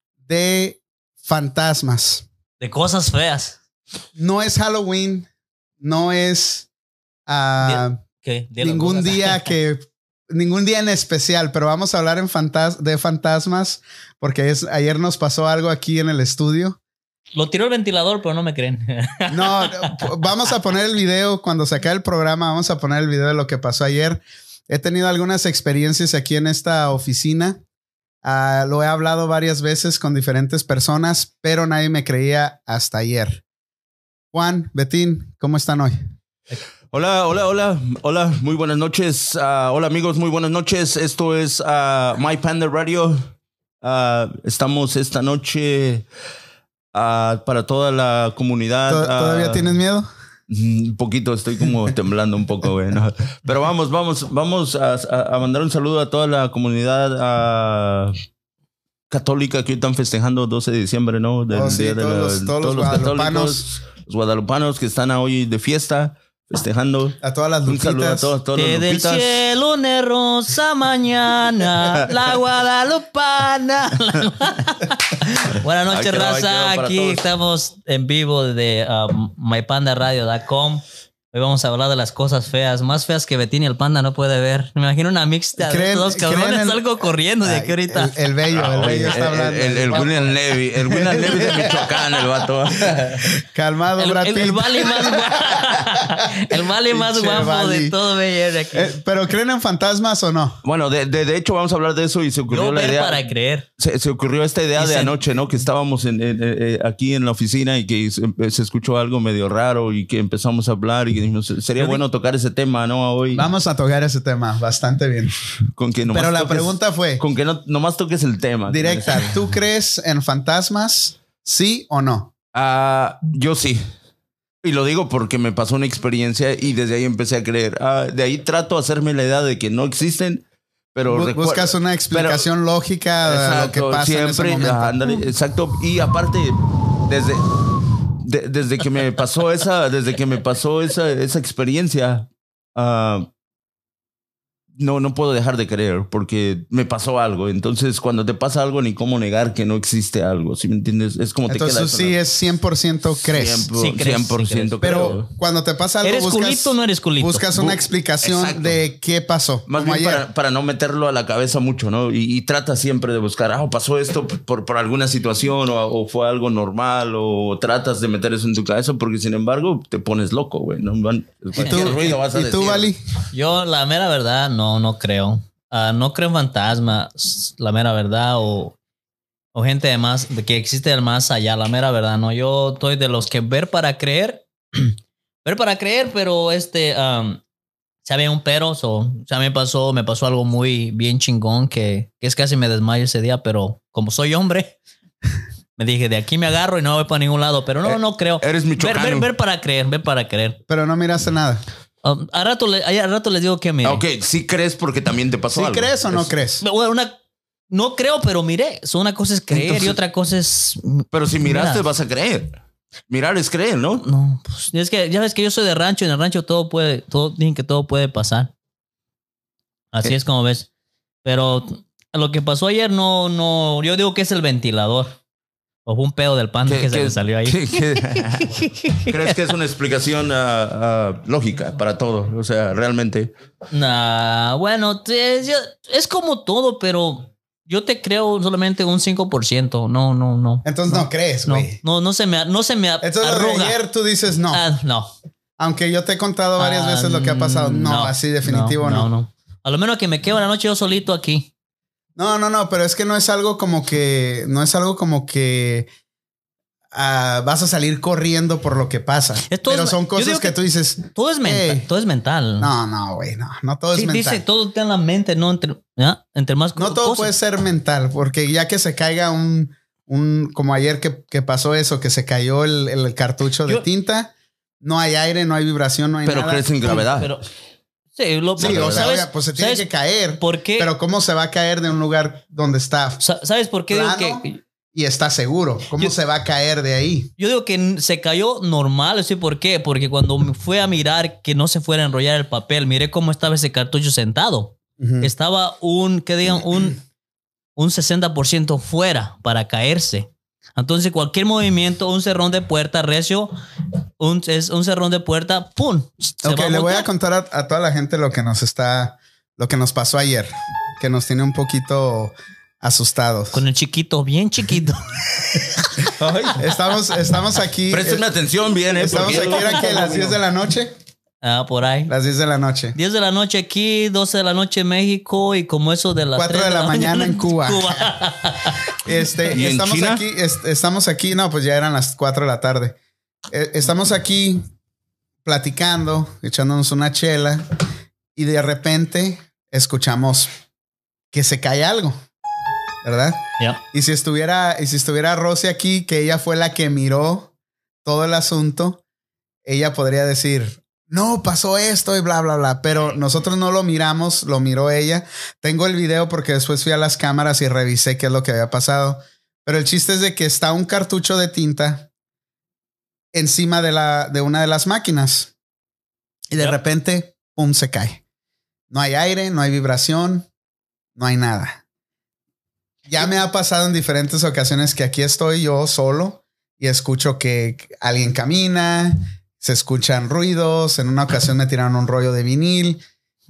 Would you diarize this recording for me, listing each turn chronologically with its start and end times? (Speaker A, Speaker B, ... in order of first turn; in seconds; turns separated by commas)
Speaker A: 0.2-2.2, Speaker B: 2.6-3.5, Speaker A: 4.2-5.3, Speaker A: 5.8-6.7, Speaker A: 7.3-8.0, Speaker B: 7.6-9.5, Speaker A: 8.6-16.8, Speaker B: 17.3-20.0, Speaker A: 19.3-27.6, Speaker A: 28.2-33.4, Speaker A: 34.3-36.0, Speaker C: 36.9-43.3, Speaker C: 43.8-46.1, Speaker C: 46.9-49.7, Speaker A: 48.9-50.1, Speaker C: 50.5-58.1, Speaker C: 59.1-69.4, Speaker A: 61.5-63.6, Speaker A: 67.2-68.3, Speaker B: 68.5-88.1, Speaker C: 75.9-77.2, Speaker A: 85.6-86.8, Speaker A: 87.4-90.3, Speaker C: 88.5-93.3, Speaker B: 88.8-89.3, Speaker A: 90.8-91.9, Speaker A: 93.5-96.0, Speaker B: 94.0-98.9, Speaker A: 96.9-97.9, Speaker A: 98.7-100.6, Speaker C: 100.6-103.2, Speaker B: 102.5-103.7, Speaker C: 103.8-113.5, Speaker B: 104.8-105.2, Speaker B: 111.8-112.0, Speaker A: 113.3-115.3, Speaker C: 115.7-119.5, Speaker A: 116.1-117.2, Speaker A: 118.7-122.3, Speaker C: 122.5-123.8, Speaker C: 124.6-132.5, Speaker A: 131.1-135.0, Speaker C: 133.2-143.3, Speaker C: 144.8-152.2, Speaker A: 151.5-153.7, Speaker C: 153.2-155.2, Speaker B: 153.7-155.2, Speaker A: 154.8-160.2, Speaker B: 156.0-157.6, Speaker C: 157.6-158.8, Speaker C: 159.7-172.9, Speaker B: 171.6-172.1, Speaker A: 171.6-173.0, Speaker B: 173.3-178.8, Speaker B: 179.5-187.4, Speaker B: 188.1-194.7, Speaker B: 195.8-200.6, Speaker C: 197.8-199.3, Speaker A: 200.7-201.6, Speaker B: 202.0-204.0, Speaker C: 203.8-206.3, Speaker A: 205.5-206.6, Speaker B: 206.6-207.1, Speaker B: 207.7-211.8, Speaker C: 209.5-209.9, Speaker C: 211.1-212.6, Speaker C: 213.1-214.0, Speaker B: 214.0-218.5, Speaker B: 219.9-220.7, Speaker B: 221.2-225.2, Speaker B: 225.8-229.3, Speaker C: 226.7-233.3, Speaker B: 233.7-243.8, Speaker A: 240.6-241.8, Speaker A: 243.0-244.6, Speaker B: 244.5-245.1, Speaker A: 245.6-249.1, Speaker B: 246.6-251.5, Speaker A: 252.2-255.9, Speaker A: 256.9-261.8, Speaker B: 259.5-260.6, Speaker B: 261.1-262.7, Speaker A: 262.6-264.4, Speaker B: 263.9-267.3, Speaker A: 266.8-274.3, Speaker A: 274.8-277.0, Speaker C: 276.2-277.3, Speaker B: 276.9-277.4, Speaker B: 278.1-279.9, Speaker A: 278.6-283.2, Speaker C: 278.6-279.1, Speaker B: 280.4-280.9, Speaker B: 283.2-284.6, Speaker A: 283.9-284.4, Speaker A: 284.9-287.3, Speaker B: 287.4-297.0, Speaker A: 295.0-295.3, Speaker B: 297.8-303.5, Speaker B: 304.2-307.1, Speaker A: 306.4-313.6, Speaker B: 313.5-316.1, Speaker C: 316.2-316.6, Speaker A: 316.6-318.3, Speaker C: 317.9-320.4, Speaker A: 319.0-320.9, Speaker B: 319.2-320.2, Speaker B: 321.4-322.1, Speaker A: 322.1-322.9, Speaker B: 322.9-328.8, Speaker A: 326.4-328.1, Speaker A: 329.0-332.9, Speaker C: 329.5-330.2, Speaker A: 333.5-334.6, Speaker A: 335.4-337.6, Speaker A: 338.3-340.5, Speaker A: 341.3-342.2, Speaker A: 343.0-343.4, Speaker A: 343.9-347.5, Speaker A: 348.0-349.0, Speaker A: 349.6-362.1, Speaker A: 363.3-365.5, Speaker A: 366.5-368.2, Speaker A: 368.9-370.5, Speaker A: 371.2-371.8, Speaker A: 373.1-383.0